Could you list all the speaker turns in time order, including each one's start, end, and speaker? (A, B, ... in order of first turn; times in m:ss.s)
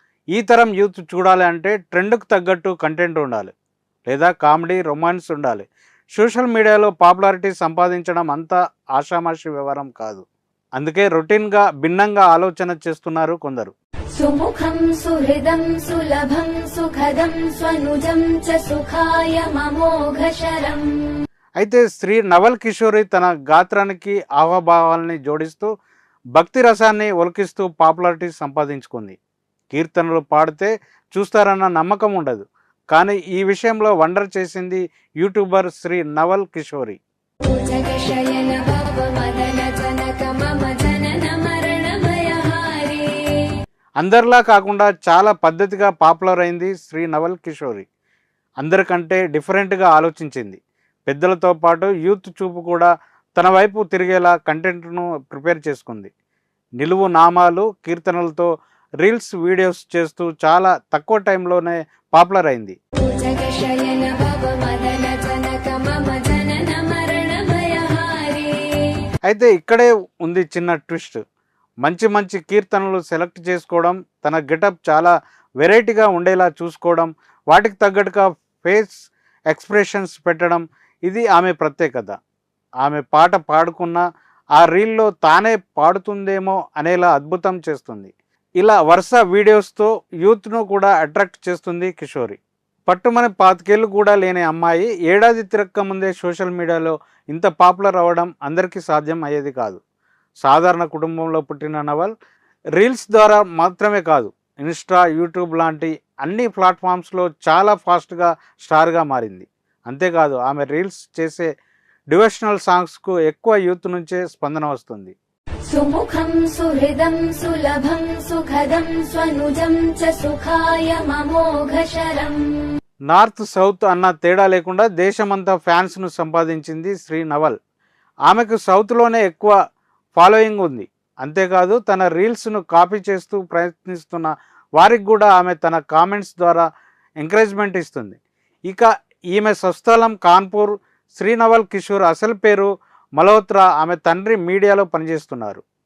0:00.3-0:03.5 A
0:04.1-0:10.2 A
0:10.8-0:13.7 A
0:14.2-0:20.9 B
0:21.6-0:25.7 A
0:26.4-0:29.2 A
0:29.7-0:37.0 A
0:37.4-0:43.5 B
0:44.0-0:47.8 A
0:48.6-0:56.1 A
0:56.8-0:58.5 A
0:59.0-1:02.8 A
1:03.0-1:09.0 B
1:09.3-1:11.2 A
1:11.8-1:22.2 A
1:22.8-1:24.0 A
1:24.6-1:39.8 A
1:40.4-1:42.1 A
1:42.8-1:51.5 A
1:52.1-1:55.2 A
1:55.7-2:02.4 B
2:03.1-2:07.6 A
2:08.3-2:09.5 A
2:10.2-2:16.6 A
2:17.2-2:25.6 A